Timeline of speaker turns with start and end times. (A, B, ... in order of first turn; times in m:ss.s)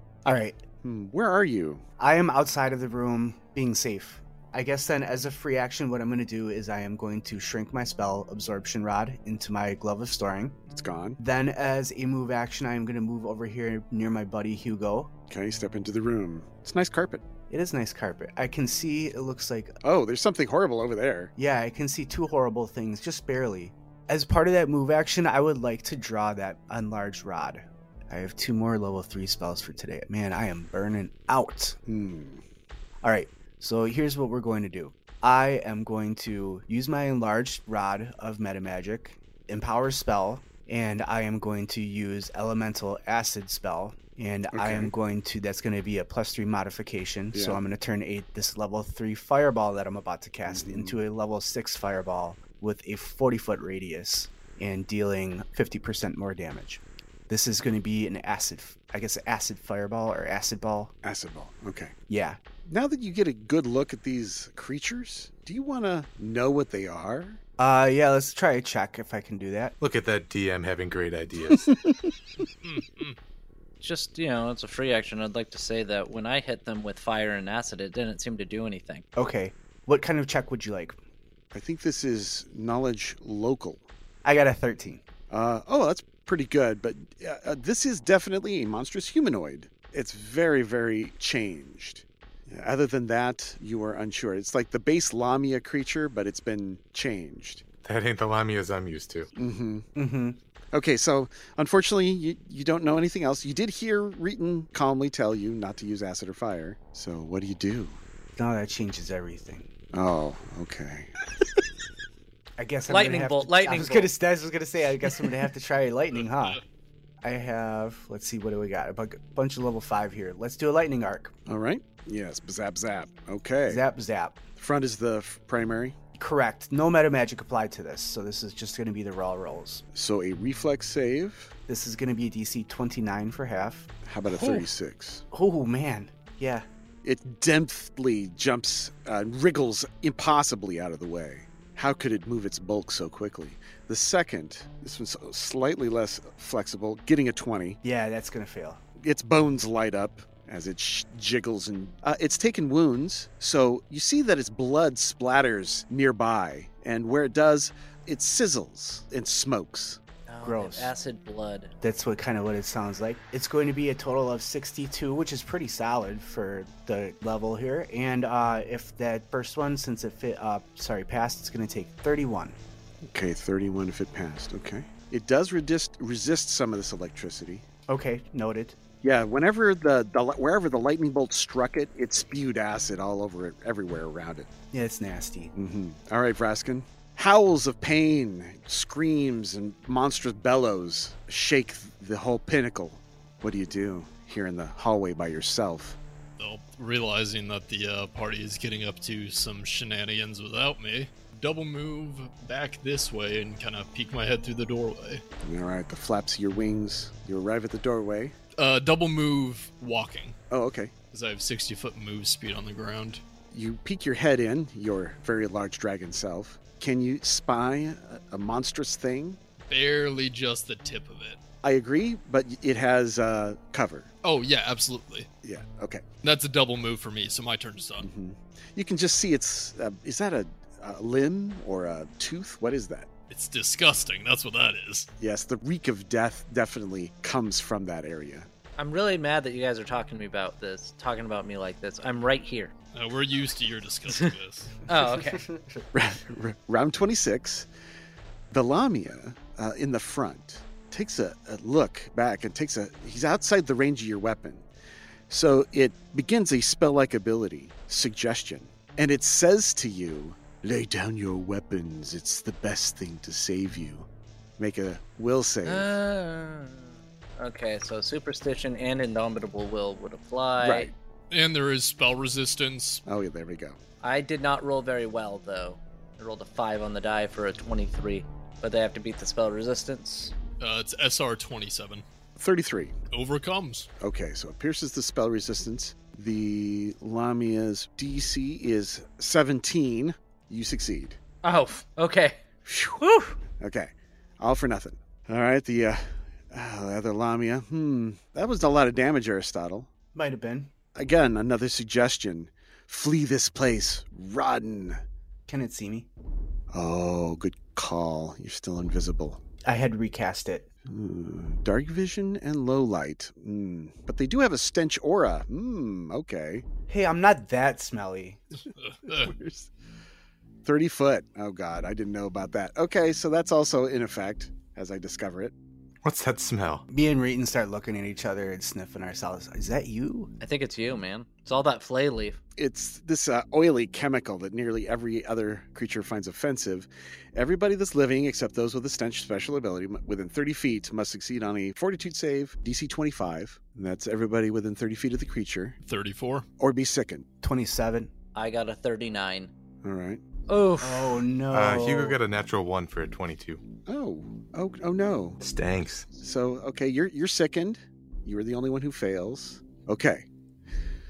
0:00.2-0:00.6 A
0:00.8-0:01.8 B
0:02.0-0:10.6 A
0:10.7-0:11.2 B
0:11.2-0:15.1 A
0:15.3-0:17.2 B
0:17.5-0:19.8 A
0:19.8-0:21.3 B
0:21.4-0:31.8 A
0:31.8-0:32.4 B
0:33.0-1:00.9 A
0:44.5-0:44.9 B
0:47.3-0:47.6 B
0:50.5-0:51.0 B
1:01.0-1:01.9 B
1:02.1-1:02.4 A
1:02.6-1:07.4 B
1:07.6-1:09.7 A
1:09.8-1:11.7 C
1:12.6-1:13.2 D
1:13.8-1:19.0 E
1:19.2-1:21.0 A
1:21.5-1:23.8 B
1:24.2-1:25.0 A
1:25.3-1:37.6 B
1:37.8-1:39.3 C
1:39.3-1:39.8 B
1:40.0-1:40.4 A
1:40.7-1:48.0 B
1:48.4-1:49.7 A
1:49.9-1:51.1 B
1:52.6-1:56.6 A
1:52.9-1:54.1 E
1:57.2-2:01.3 A
2:01.5-2:03.8 B
2:03.6-2:04.4 A
2:04.6-2:06.0 B
2:06.1-2:09.8 A
2:09.9-2:11.5 B
2:11.7-2:14.7 A
2:14.0-2:15.2 B
2:15.3-2:16.6 A
2:17.0-2:27.8 B
2:27.8-2:28.8 A
2:29.0-2:40.0 B
2:40.3-2:41.7 E
2:40.4-2:40.9 A
2:41.8-2:52.6 A
2:53.0-2:57.6 B
2:57.9-2:58.8 A
2:59.0-3:04.5 B
3:04.7-3:05.5 A
3:05.5-3:16.0 B
3:16.4-3:25.2 D
3:25.4-3:28.3 B
3:28.6-3:30.3 D
3:30.5-3:30.9 B
3:31.1-3:33.2 D
3:33.5-3:39.4 B
3:39.6-3:41.4 D
3:41.6-3:44.1 B
3:44.2-3:45.3 D
3:45.4-3:46.0 B
3:46.2-3:48.1 D
3:48.0-3:53.1 B
3:53.3-3:55.1 D
3:55.2-3:58.5 B
3:58.8-4:02.7 E
4:02.9-4:04.8 D
4:04.8-4:05.5 E
4:05.5-4:05.8 A
4:05.9-4:07.7 B
4:08.5-4:14.6 B
4:15.3-4:25.9 B
4:25.6-4:30.9 E
4:30.6-4:30.9 B
4:31.3-4:33.0 D
4:33.0-4:33.8 B
4:34.0-4:40.3 E
4:40.6-4:42.0 D
4:42.4-4:43.0 B
4:43.1-4:43.9 D
4:44.0-4:51.2 B
4:51.4-4:52.4 E
4:52.6-4:53.0 B
4:53.0-4:53.4 E
4:53.6-4:59.9 B
5:00.1-5:00.7 A
5:00.9-5:05.0 B
5:05.5-5:06.1 A
5:06.7-5:09.4 B
5:09.6-5:10.6 A
5:10.9-5:16.6 B
5:16.9-5:18.4 A
5:18.8-5:19.3 D
5:19.1-5:19.7 B
5:20.6-5:25.5 B
5:26.0-5:26.8 C
5:26.9-5:30.3 A
5:30.4-5:32.4 E
5:32.6-5:45.8 B
5:45.8-5:46.4 D
5:46.6-5:47.2 B
5:47.4-5:48.1 A
5:48.3-5:49.5 E
5:49.8-5:50.2 B
5:50.5-5:51.2 E
5:50.8-5:52.2 A
5:51.5-5:53.6 C
5:53.9-5:55.4 B
5:55.4-5:56.1 C
5:56.2-6:00.3 B